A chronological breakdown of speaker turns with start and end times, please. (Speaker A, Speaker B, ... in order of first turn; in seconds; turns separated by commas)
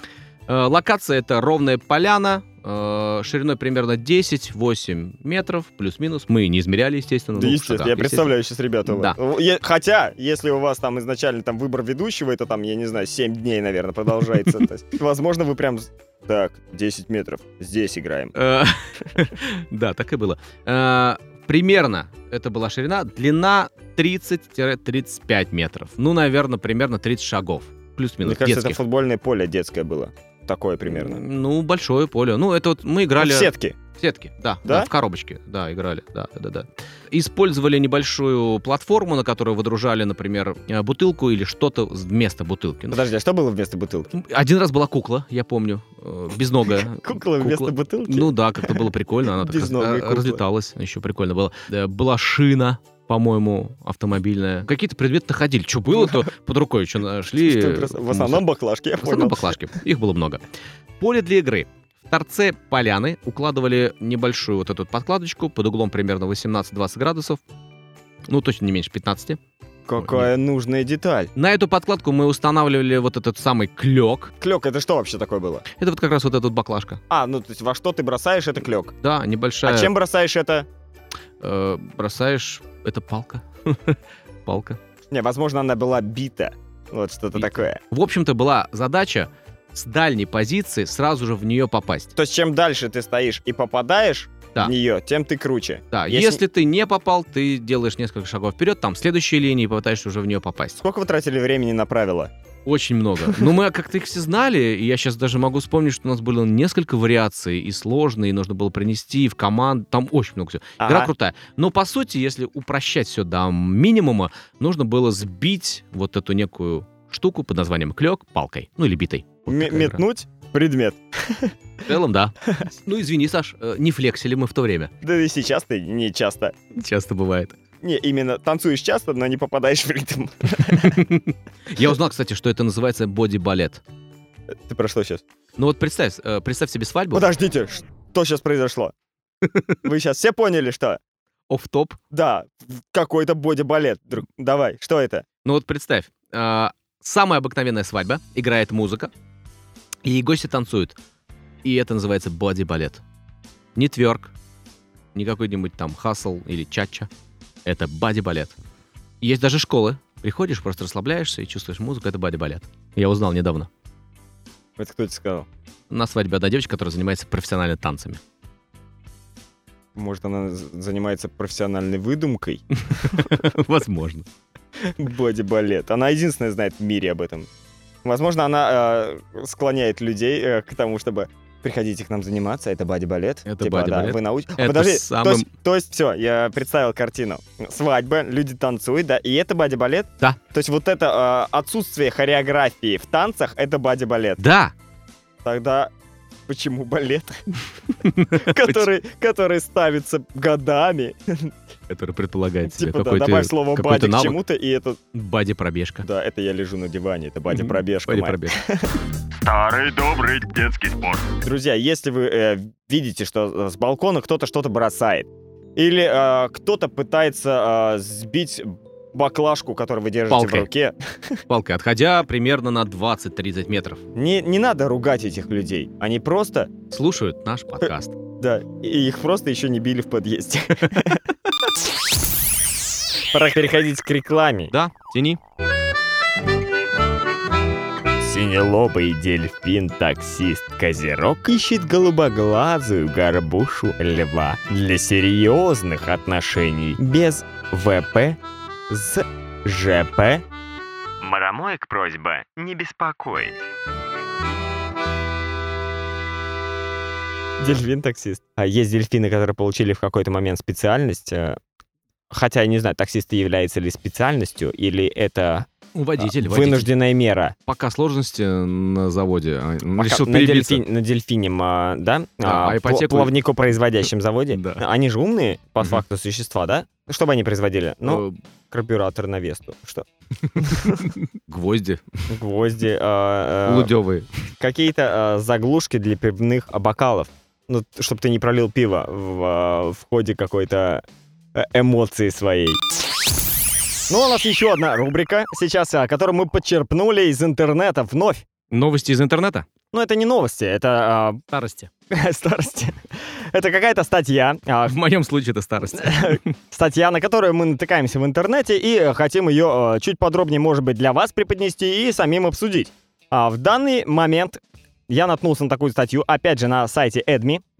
Speaker A: 0.5-8.3, Speaker B: 7.3-18.3, Speaker A: 8.8-9.2, Speaker A: 18.3-28.8, Speaker B: 28.2-31.2, Speaker A: 30.9-43.0, Speaker B: 33.2-33.8, Speaker B: 42.9-44.1, Speaker A: 44.1-58.4, Speaker B: 46.7-50.4, Speaker B: 57.4-59.5, Speaker A: 59.0-60.5, Speaker A: 61.0-67.4, Speaker A: 68.3-69.4, Speaker B: 69.9-71.3, Speaker A: 70.0-70.3, Speaker A: 71.3-74.3, Speaker B: 74.4-75.7, Speaker A: 75.8-77.0, Speaker B: 77.1-78.9, Speaker A: 79.0-79.9, Speaker B: 79.6-80.7, Speaker A: 81.4-84.8, Speaker B: 85.1-87.8, Speaker A: 87.3-92.1, Speaker B: 92.2-96.4, Speaker A: 95.9-100.8, Speaker B: 100.8-102.3, Speaker A: 102.7-120.0, Speaker B: 110.8-111.1, Speaker B: 119.5-121.5, Speaker A: 121.8-124.9, Speaker B: 125.0-126.5, Speaker A: 126.7-127.6, Speaker B: 127.8-131.0, Speaker A: 130.7-133.8, Speaker B: 134.5-135.2, Speaker A: 135.6-137.3, Speaker B: 137.1-138.9, Speaker A: 139.4-139.8, Speaker B: 139.8-141.0, Speaker A: 141.5-142.0, Speaker B: 142.1-145.2, Speaker A: 145.4-149.1, Speaker A: 150.0-151.0, Speaker A: 151.6-153.0, Speaker A: 153.7-154.3, Speaker A: 155.1-157.1, Speaker A: 157.6-158.6, Speaker A: 159.2-163.7, Speaker B: 164.8-165.5, Speaker A: 165.9-168.2, Speaker B: 169.9-173.4, Speaker A: 172.8-174.2, Speaker B: 174.8-177.5, Speaker B: 178.0-194.4, Speaker A: 183.4-185.5, Speaker A: 194.4-194.7, Speaker B: 195.4-195.9, Speaker B: 196.5-197.5, Speaker A: 197.9-198.8, Speaker B: 198.4-201.5, Speaker A: 201.9-204.4, Speaker B: 202.7-205.0, Speaker A: 205.1-206.1, Speaker B: 206.0-221.4, Speaker A: 207.5-208.6, Speaker A: 220.3-220.7, Speaker A: 221.5-224.0, Speaker B: 224.1-226.7, Speaker A: 226.9-228.2, Speaker B: 228.4-231.2, Speaker B: 233.3-234.7, Speaker A: 234.7-235.4, Speaker B: 238.2-250.4, Speaker B: 251.2-253.6, Speaker B: 257.6-261.6, Speaker B: 262.3-267.5, Speaker A: 265.9-266.9, Speaker A: 267.7-270.8, Speaker B: 270.0-281.1, Speaker A: 272.4-273.3, Speaker A: 274.5-274.8, Speaker A: 278.0-278.4, Speaker A: 280.5-282.2, Speaker B: 282.3-283.9, Speaker A: 283.6-284.3, Speaker B: 284.6-291.0, Speaker B: 291.5-292.8, Speaker B: 294.1-298.4, Speaker A: 298.7-299.6, Speaker B: 299.9-301.4, Speaker A: 301.5-301.9, Speaker B: 302.1-304.9, Speaker A: 304.9-306.5, Speaker B: 305.9-317.6